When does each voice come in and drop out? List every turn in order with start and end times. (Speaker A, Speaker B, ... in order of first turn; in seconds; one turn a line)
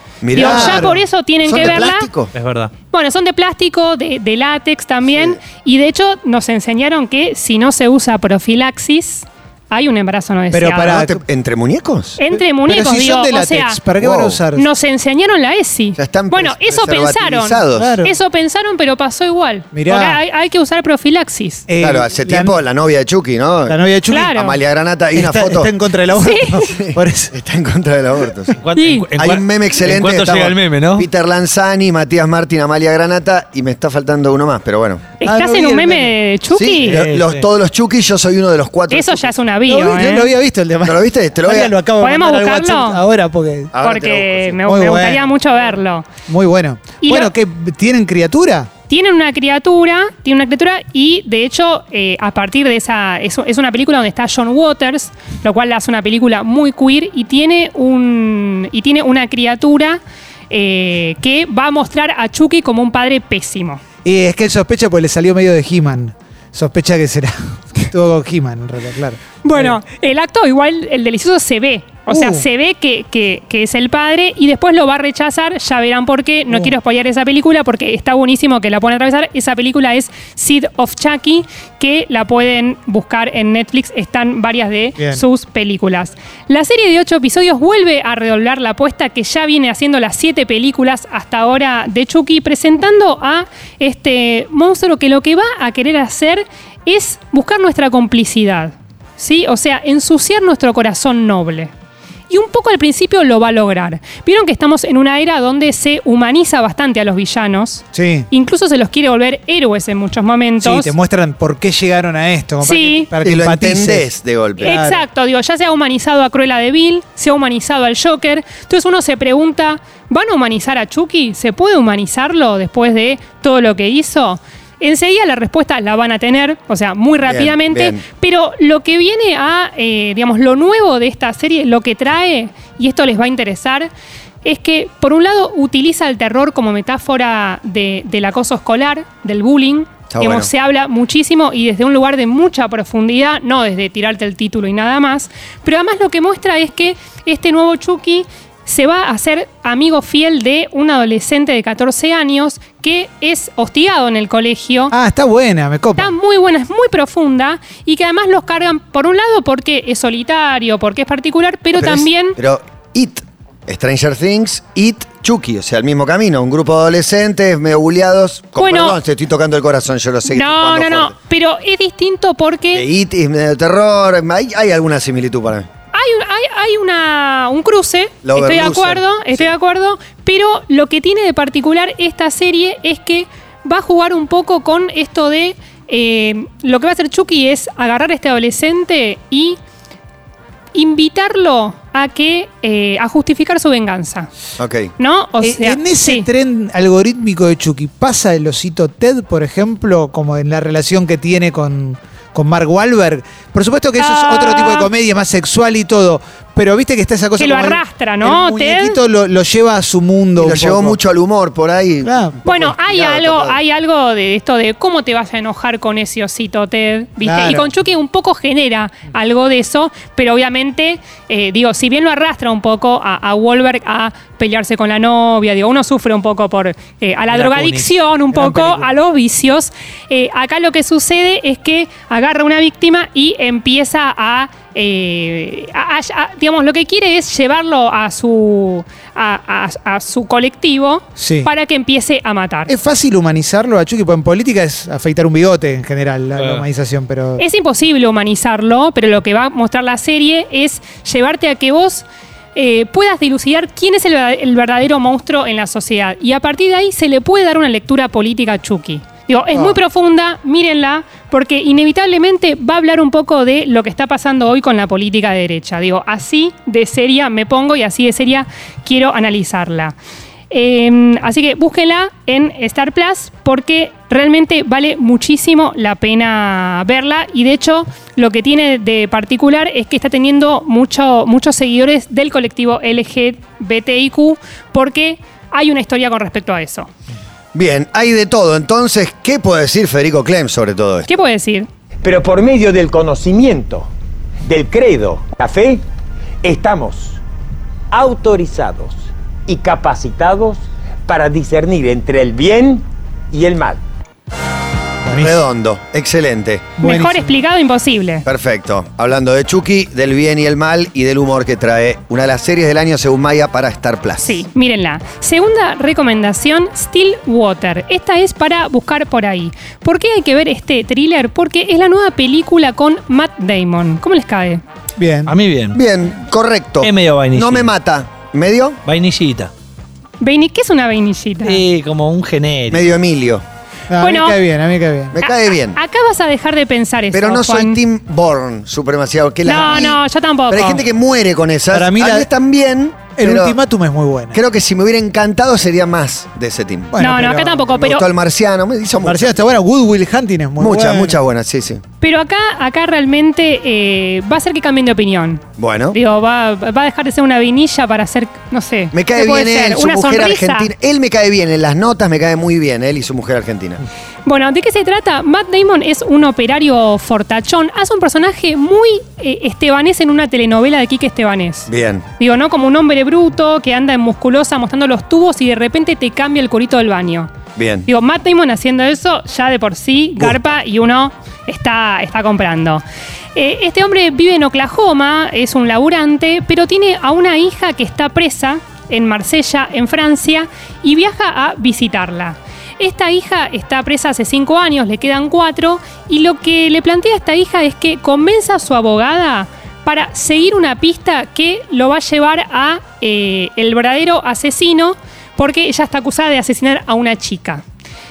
Speaker A: 0.2-0.9
Speaker B: 0.3-2.1
Speaker C: 0.3-1.0
Speaker A: 1.4-2.3
Speaker D: 2.3-2.7
Speaker B: 2.9-11.1
Speaker A: 5.1-5.3
Speaker C: 10.5-11.2
Speaker A: 10.8-12.2
Speaker B: 12.2-13.8
Speaker C: 12.3-14.7
Speaker A: 14.0-14.4
Speaker B: 14.5-21.7
Speaker A: 16.0-18.0
Speaker C: 17.8-18.1
Speaker C: 19.7-20.2
Speaker C: 21.7-22.6
Speaker A: 21.8-25.7
Speaker C: 23.7-24.4
Speaker B: 24.1-24.6
Speaker C: 25.1-27.4
Speaker B: 26.1-26.7
Speaker A: 26.6-28.6
Speaker D: 28.6-31.1
Speaker B: 28.8-29.1
Speaker A: 29.2-35.1
Speaker B: 35.2-37.0
Speaker C: 35.2-36.1
Speaker A: 36.5-39.3
Speaker D: 36.8-37.5
Speaker B: 38.9-40.3
Speaker C: 39.7-43.7
Speaker A: 40.8-41.7
Speaker B: 42.0-43.0
Speaker A: 43.7-44.6
Speaker B: 43.8-46.1
Speaker C: 44.7-45.2
Speaker C: 46.3-48.7
Speaker B: 47.0-47.3
Speaker B: 48.9-63.8
Speaker C: 64.0-69.8
Speaker B: 69.4-101.7
Speaker C: 72.1-72.5
Speaker C: 76.5-76.8
Speaker C: 85.0-85.2
Speaker B: 102.3-110.9
Speaker C: 107.9-108.3
Speaker C: 110.6-114.1
Speaker B: 112.6-113.1
Speaker A: 113.2-114.8
Speaker B: 114.6-133.9
Speaker C: 114.6-115.0
Speaker A: 127.2-128.0
Speaker B: 134.4-154.9
Speaker A: 140.1-140.5
Speaker C: 154.9-156.1
Speaker B: 156.0-162.4
Speaker A: 161.8-171.1
Speaker B: 168.6-169.0
Speaker B: 170.3-172.9
Speaker A: 172.7-175.7
Speaker B: 175.9-189.6
Speaker A: 178.2-179.5
Speaker B: 190.7-194.3
Speaker A: 194.6-194.9
Speaker B: 195.0-196.3
Speaker C: 195.4-211.0
Speaker B: 204.0-204.9
Speaker B: 207.4-209.0
Speaker A: 210.4-213.6
Speaker C: 212.0-212.4
Speaker B: 212.4-242.7
Speaker C: 217.2-217.7
Speaker D: 227.3-227.9
Speaker C: 228.3-228.9
Speaker C: 241.2-241.5
Speaker C: 242.7-247.4
Speaker D: 246.4-246.7
Speaker B: 247.4-270.0
Speaker B: 270.5-286.9
Speaker A: 287.5-291.1
Speaker B: 291.1-291.7
Speaker E: 292.0-293.9
Speaker E: 294.5-295.8
Speaker E: 296.4-297.2
Speaker E: 297.9-303.8
Speaker C: 305.1-305.4
Speaker A: 305.1-306.7
Speaker B: 306.8-308.3
Speaker C: 306.8-307.3
Speaker A: 308.3-314.4
Speaker B: 314.2-324.6
Speaker C: 325.0-325.4
Speaker D: 325.3-325.8
Speaker A: 325.7-328.8
Speaker D: 326.8-327.7
Speaker D: 328.9-329.5
Speaker B: 330.2-331.6
Speaker D: 331.4-332.9
Speaker A: 332.7-333.4
Speaker C: 333.9-335.2
Speaker B: 334.0-334.4
Speaker A: 335.1-335.8
Speaker B: 335.2-337.8
Speaker A: 337.1-343.6
Speaker B: 339.4-340.9
Speaker C: 341.7-342.3
Speaker C: 343.2-344.4
Speaker A: 344.3-347.0
Speaker C: 346.9-347.6
Speaker B: 347.0-348.1
Speaker A: 347.7-349.4
Speaker C: 349.0-351.2
Speaker A: 350.6-351.8
Speaker B: 352.0-360.7
Speaker A: 355.6-356.0
Speaker A: 358.9-363.8
Speaker B: 364.2-377.3
Speaker A: 371.7-372.1
Speaker A: 377.6-377.9
Speaker B: 377.9-382.8
Speaker B: 383.4-407.6